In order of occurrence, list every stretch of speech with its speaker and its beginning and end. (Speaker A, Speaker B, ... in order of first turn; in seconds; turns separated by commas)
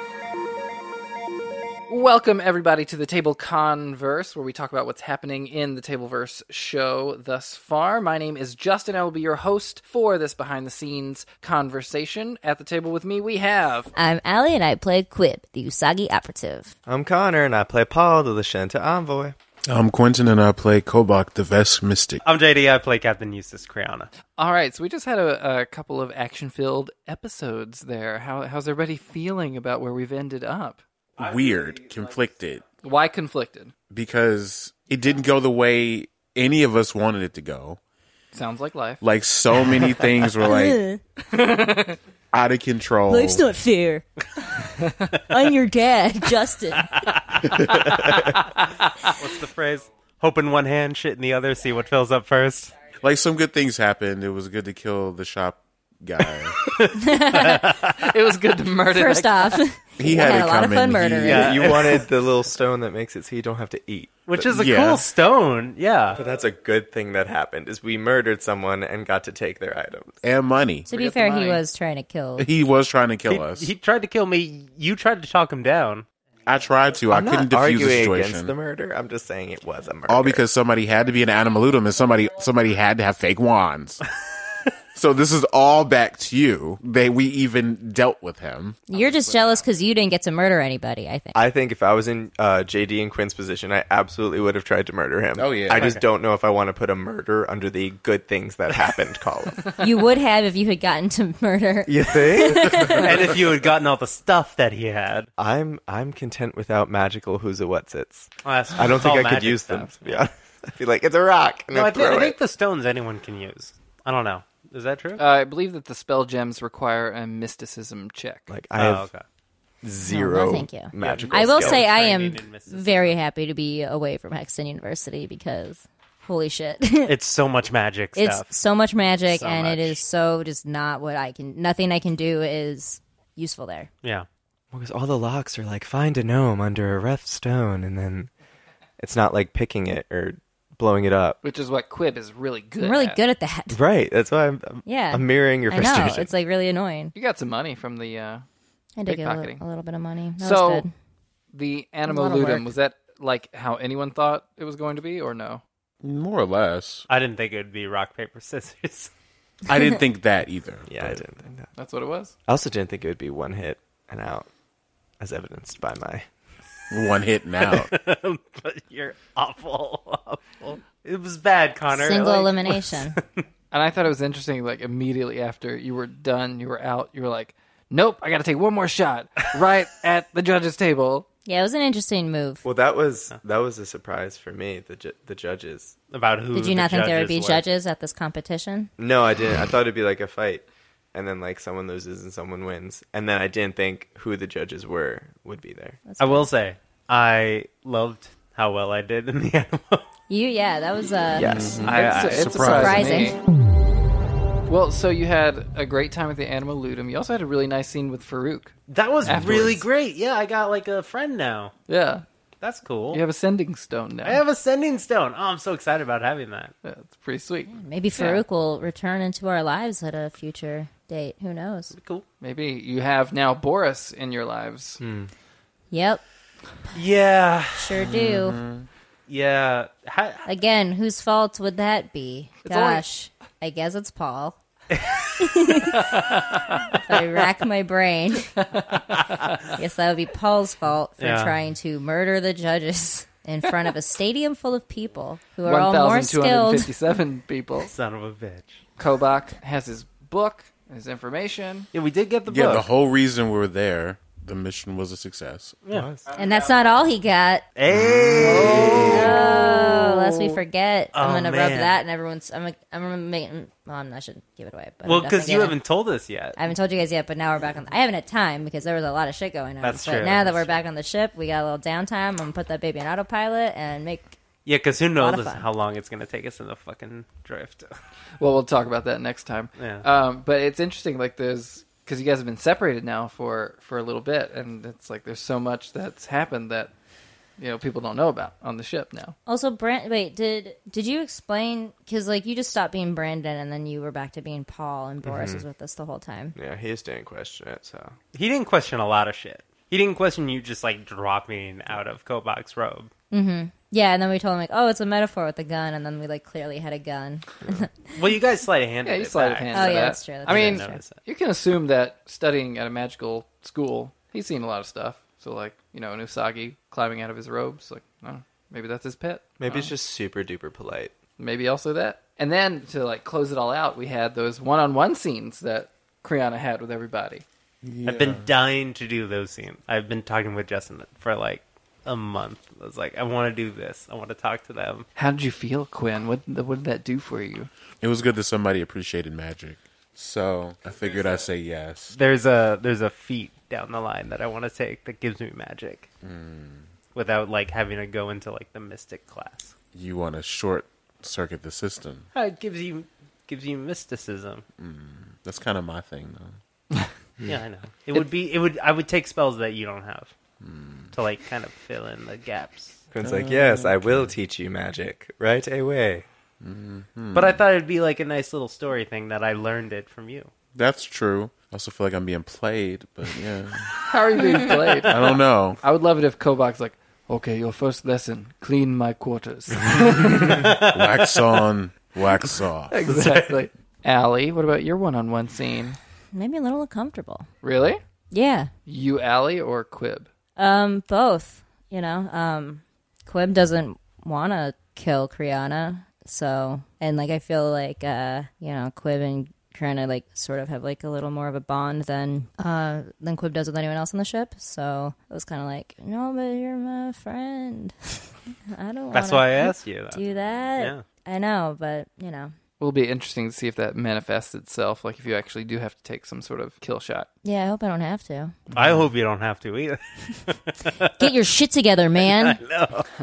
Speaker A: 1.9-13.9, Speaker B: 13.9-16.7, Speaker C: 16.9-19.4, Speaker D: 19.7-22.2, Speaker E: 22.2-24.1, Speaker A: 24.4-30.8, Speaker D: 31.2-32.6, Speaker A: 32.8-33.7, Speaker D: 33.9-37.8, Speaker A: 38.3-39.0, Speaker D: 39.0-40.8, Speaker B: 40.4-41.0, Speaker A: 41.3-42.0, Speaker D: 42.3-43.5, Speaker B: 43.1-44.0, Speaker B: 45.3-46.9, Speaker E: 46.8-48.0, Speaker E: 48.8-52.8, Speaker D: 53.0-56.6, Speaker E: 56.8-58.0, Speaker B: 57.1-57.6, Speaker A: 58.1-59.6, Speaker B: 58.9-61.6, Speaker D: 60.0-61.6, Speaker E: 61.2-62.1, Speaker C: 61.3-64.6, Speaker E: 64.3-66.2, Speaker D: 64.5-65.1, Speaker C: 66.1-70.2, Speaker D: 70.2-70.9, Speaker B: 70.9-72.5, Speaker A: 71.0-71.6, Speaker D: 72.4-73.7, Speaker E: 73.3-76.0, Speaker D: 76.5-78.5, Speaker C: 77.1-80.4, Speaker D: 80.1-84.0, Speaker D: 85.0-89.0, Speaker B: 88.9-91.4, Speaker C: 91.3-99.7, Speaker D: 95.4-95.9, Speaker E: 95.7-96.0, Speaker E: 98.7-99.0, Speaker B: 99.8-103.2, Speaker C: 101.9-102.8, Speaker E: 103.0-105.3, Speaker C: 105.4-112.3, Speaker E: 108.4-110.3, Speaker E: 111.7-115.2, Speaker A: 115.2-118.5, Speaker C: 118.5-119.1, Speaker E: 118.8-119.2, Speaker C: 119.8-121.8, Speaker B: 120.1-127.1, Speaker E: 120.9-123.2, Speaker E: 127.1-128.5, Speaker B: 128.2-133.9, Speaker E: 129.3-130.0, Speaker C: 134.7-138.3, Speaker C: 139.0-141.4, Speaker A: 141.4-143.2, Speaker B: 142.8-143.8, Speaker C: 143.7-146.3, Speaker B: 144.8-147.2, Speaker A: 147.2-148.4, Speaker B: 149.0-150.9, Speaker A: 149.1-149.6, Speaker A: 150.4-150.8, Speaker A: 151.5-155.6, Speaker B: 152.1-152.7, Speaker D: 156.0-157.1, Speaker E: 157.1-159.1, Speaker D: 159.7-161.2, Speaker C: 160.9-161.7, Speaker A: 161.8-162.3, Speaker C: 162.5-164.5, Speaker C: 165.2-166.3, Speaker D: 166.9-167.9, Speaker E: 167.6-173.2, Speaker B: 171.9-173.2, Speaker A: 173.7-181.3, Speaker B: 181.4-182.6, Speaker C: 182.6-185.9, Speaker E: 186.1-187.7, Speaker B: 186.5-188.9, Speaker C: 189.0-196.0, Speaker B: 196.1-196.5, Speaker E: 196.2-200.1, Speaker B: 200.3-201.8, Speaker C: 201.3-201.9, Speaker D: 201.5-203.2, Speaker E: 201.9-203.0, Speaker A: 201.9-203.4, Speaker B: 202.6-203.4, Speaker A: 204.7-208.8, Speaker E: 208.9-211.7, Speaker D: 209.2-209.8, Speaker A: 211.9-212.2, Speaker E: 212.6-213.2, Speaker A: 213.1-214.4, Speaker E: 214.2-216.7, Speaker A: 216.8-218.4, Speaker B: 217.7-221.9, Speaker E: 221.9-222.2, Speaker A: 222.4-225.0, Speaker C: 225.0-225.3, Speaker B: 225.9-226.2, Speaker E: 226.9-228.0, Speaker B: 227.8-228.6, Speaker D: 228.0-228.9, Speaker E: 229.3-230.4, Speaker B: 230.5-234.6, Speaker A: 232.6-233.0, Speaker E: 234.9-235.3, Speaker B: 235.4-236.1, Speaker B: 237.0-238.5, Speaker B: 239.7-246.9, Speaker E: 241.2-241.5, Speaker A: 245.6-247.9, Speaker E: 247.9-248.8, Speaker A: 249.0-251.9, Speaker E: 251.9-252.9, Speaker D: 252.5-255.8, Speaker C: 255.9-256.3, Speaker B: 256.4-257.6, Speaker E: 257.8-260.6, Speaker A: 258.4-259.3, Speaker D: 258.5-259.0, Speaker B: 258.8-265.8, Speaker E: 261.1-261.9, Speaker E: 265.0-266.6, Speaker B: 266.6-274.4, Speaker E: 269.8-270.8, Speaker E: 274.6-277.9, Speaker B: 275.2-275.7, Speaker A: 278.4-286.9, Speaker E: 279.8-280.1, Speaker A: 287.6-289.4, Speaker B: 289.5-296.6, Speaker C: 295.3-295.6, Speaker C: 296.6-298.2, Speaker E: 298.3-303.1, Speaker B: 303.3-308.1, Speaker E: 308.2-311.2, Speaker A: 309.0-319.9, Speaker B: 309.7-311.0, Speaker C: 319.6-321.3, Speaker A: 321.4-327.4, Speaker D: 327.8-328.5, Speaker E: 328.1-335.1, Speaker A: 335.2-337.7, Speaker D: 338.0-342.1, Speaker E: 342.1-346.1, Speaker D: 346.2-346.9, Speaker E: 347.1-349.8, Speaker D: 349.9-352.3, Speaker E: 352.3-354.6, Speaker D: 354.8-356.6, Speaker E: 357.5-360.3, Speaker D: 360.6-361.1, Speaker E: 361.1-363.0, Speaker C: 363.1-366.3, Speaker D: 363.2-364.4, Speaker D: 366.6-367.6, Speaker E: 367.3-370.5, Speaker D: 370.8-373.9, Speaker A: 374.0-380.5, Speaker D: 375.1-375.8, Speaker E: 380.5-381.4, Speaker D: 380.9-383.0, Speaker A: 382.9-386.0, Speaker E: 383.1-383.6, Speaker B: 386.3-387.5, Speaker A: 387.6-388.0, Speaker B: 388.3-388.7, Speaker A: 388.9-390.3, Speaker B: 390.6-412.5, Speaker E: 409.1-410.2, Speaker E: 410.8-411.0, Speaker A: 412.8-417.3, Speaker B: 417.4-418.6, Speaker E: 418.7-421.1, Speaker B: 421.2-422.6, Speaker E: 422.2-423.1